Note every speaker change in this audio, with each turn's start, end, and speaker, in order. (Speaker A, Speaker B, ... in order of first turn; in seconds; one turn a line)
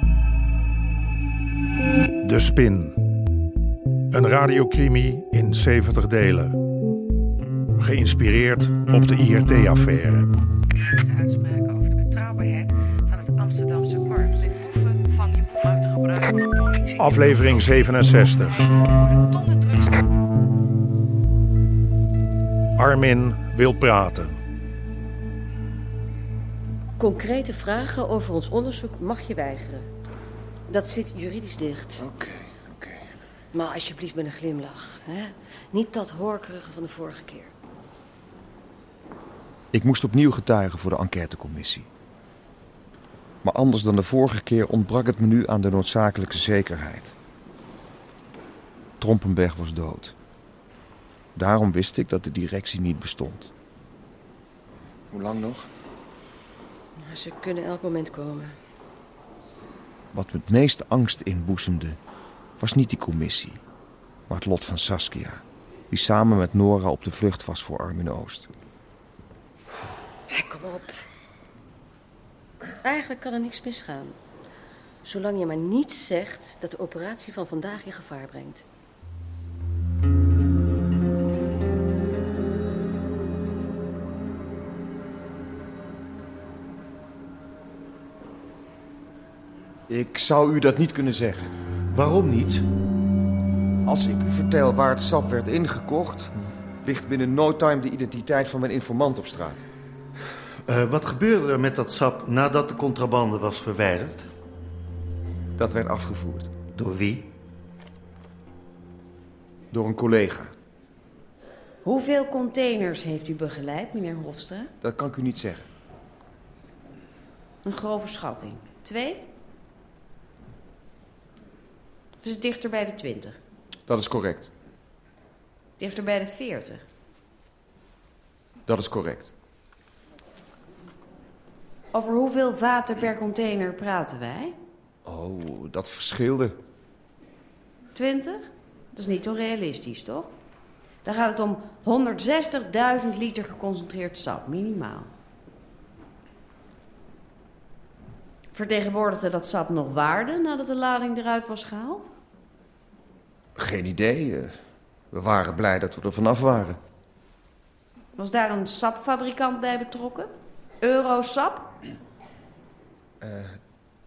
Speaker A: 2.2-3.0
Speaker A: 4.1-6.6
Speaker A: 7.8-10.3
Speaker B: 11.0-17.4
Speaker A: 17.0-18.5
Speaker B: 19.0-19.9
Speaker A: 22.8-24.4
Speaker C: 27.0-29.9
Speaker C: 30.7-32.0
Speaker D: 32.0-33.1
Speaker C: 33.5-37.5
Speaker D: 39.7-41.9
Speaker D: 43.4-47.1
Speaker D: 49.0-50.1
Speaker D: 51.4-53.5
Speaker D: 55.1-55.7
Speaker C: 57.0-58.5
Speaker D: 60.1-62.0
Speaker D: 62.6-63.6
Speaker D: 64.3-68.5
Speaker C: 70.3-70.9
Speaker C: 72.8-74.2
Speaker C: 75.0-78.6
Speaker D: 89.9-91.5
Speaker E: 91.9-92.7
Speaker D: 93.9-96.3
Speaker D: 96.8-99.6
Speaker E: 100.7-104.3
Speaker D: 105.6-106.5
Speaker E: 106.8-107.3
Speaker D: 109.7-110.5
Speaker F: 111.8-114.7
Speaker D: 114.8-115.7
Speaker F: 117.7-119.2
Speaker F: 122.2-123.4
Speaker D: 123.9-124.5
Speaker F: 125.8-126.8
Speaker D: 128.7-129.3
Speaker F: 131.9-134.6
Speaker D: 135.1-136.6
Speaker F: 137.9-140.3
Speaker F: 141.0-145.1
Speaker F: 148.5-152.1
Speaker D: 153.6-154.5
Speaker D: 155.1-156.8
Speaker F: 158.2-160.3
Speaker F: 160.8-161.7
Speaker D: 163.2-163.6